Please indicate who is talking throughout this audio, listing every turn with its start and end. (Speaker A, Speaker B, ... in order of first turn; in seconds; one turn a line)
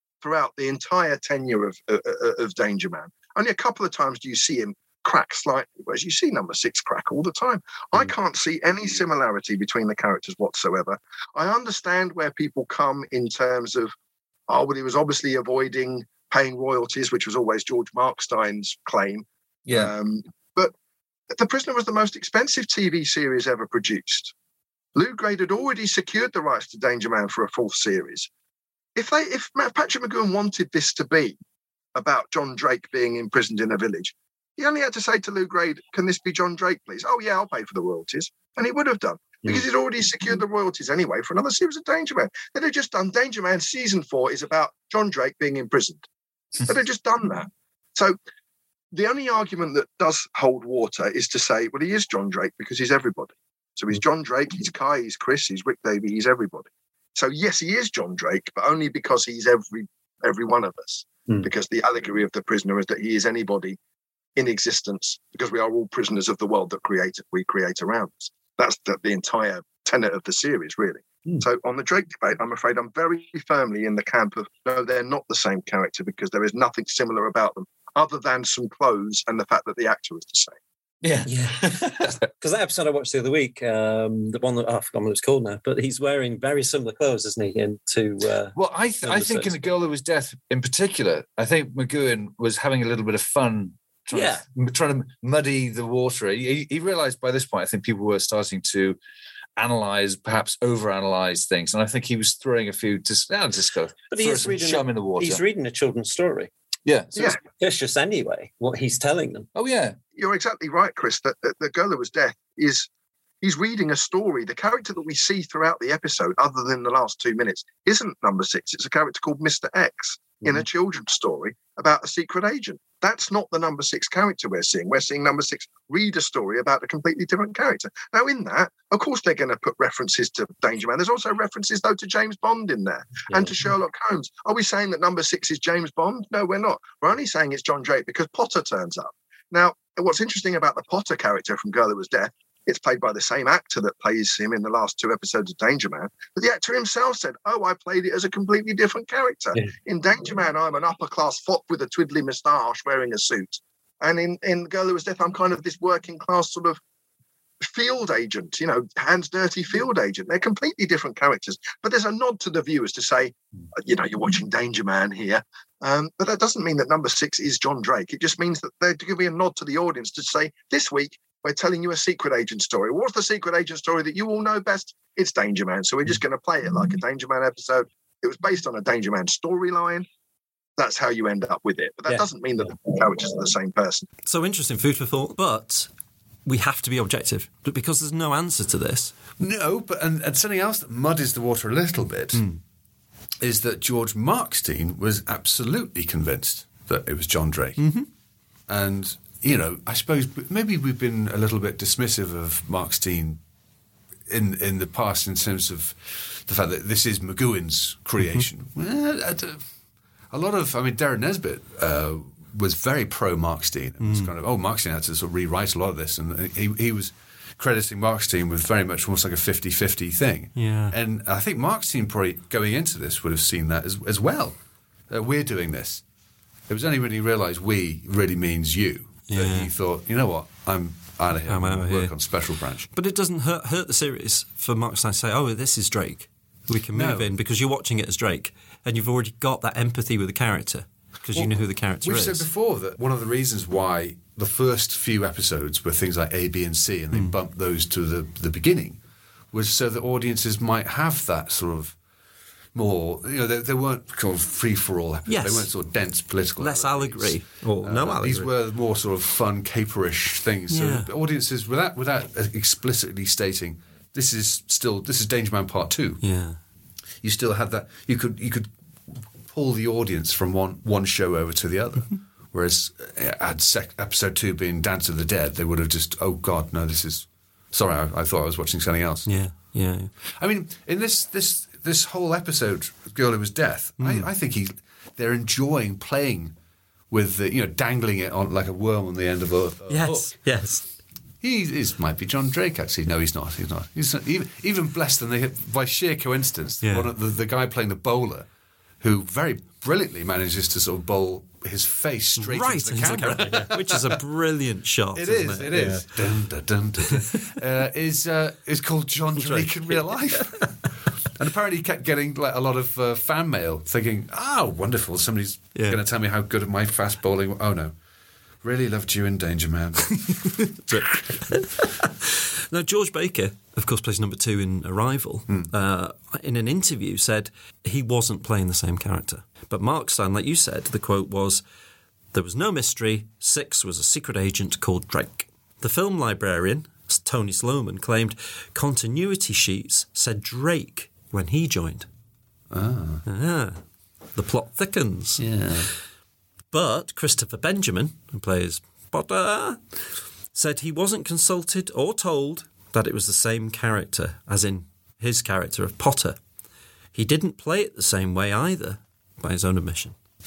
Speaker A: 0.2-13.9
Speaker A: 14.5-20.7
Speaker A: 21.3-24.3
Speaker A: 24.9-28.3
Speaker A: 28.9-31.4
Speaker A: 31.9-46.0
Speaker A: 46.6-48.1
Speaker A: 48.9-63.8
Speaker A: 64.3-80.5
Speaker B: 81.2-89.6
Speaker C: 88.5-99.0
Speaker C: 99.6-105.4
Speaker B: 104.1-106.5
Speaker C: 106.8-107.4
Speaker B: 107.6-109.5
Speaker C: 109.5-110.0
Speaker A: 110.2-112.9
Speaker A: 113.4-156.8
Speaker A: 157.6-180.1
Speaker A: 180.8-184.1
Speaker D: 184.2-185.9
Speaker D: 186.4-189.1
Speaker E: 189.4-192.4
Speaker D: 192.3-192.6
Speaker E: 193.4-197.8
Speaker D: 197.8-198.1
Speaker E: 198.7-203.4
Speaker E: 204.3-209.6
Speaker D: 208.2-208.4
Speaker E: 210.3-224.6
Speaker D: 214.0-214.3
Speaker D: 220.5-220.9
Speaker E: 225.1-226.0
Speaker E: 226.7-232.9
Speaker D: 229.3-229.7
Speaker D: 231.5-232.1
Speaker D: 232.9-242.5
Speaker E: 236.9-237.3
Speaker E: 241.3-249.0
Speaker E: 249.5-251.9
Speaker E: 252.7-266.2
Speaker D: 255.3-255.7
Speaker D: 256.6-258.5
Speaker D: 260.7-261.1
Speaker D: 266.2-266.6
Speaker E: 267.2-279.3
Speaker D: 279.2-280.1
Speaker E: 280.4-286.5
Speaker D: 284.0-284.3
Speaker E: 287.1-290.4
Speaker D: 289.9-290.9
Speaker E: 291.4-298.5
Speaker D: 296.8-297.1
Speaker E: 299.0-304.2
Speaker D: 302.4-306.1
Speaker E: 305.1-317.9
Speaker D: 307.1-307.5
Speaker D: 309.4-310.6
Speaker D: 315.7-316.0
Speaker E: 318.6-320.3
Speaker D: 320.2-331.6
Speaker D: 332.3-342.1
Speaker E: 342.7-343.2
Speaker D: 343.2-343.8
Speaker D: 344.4-345.4
Speaker E: 345.4-345.9
Speaker D: 346.7-349.8
Speaker D: 350.5-356.4
Speaker D: 357.1-360.1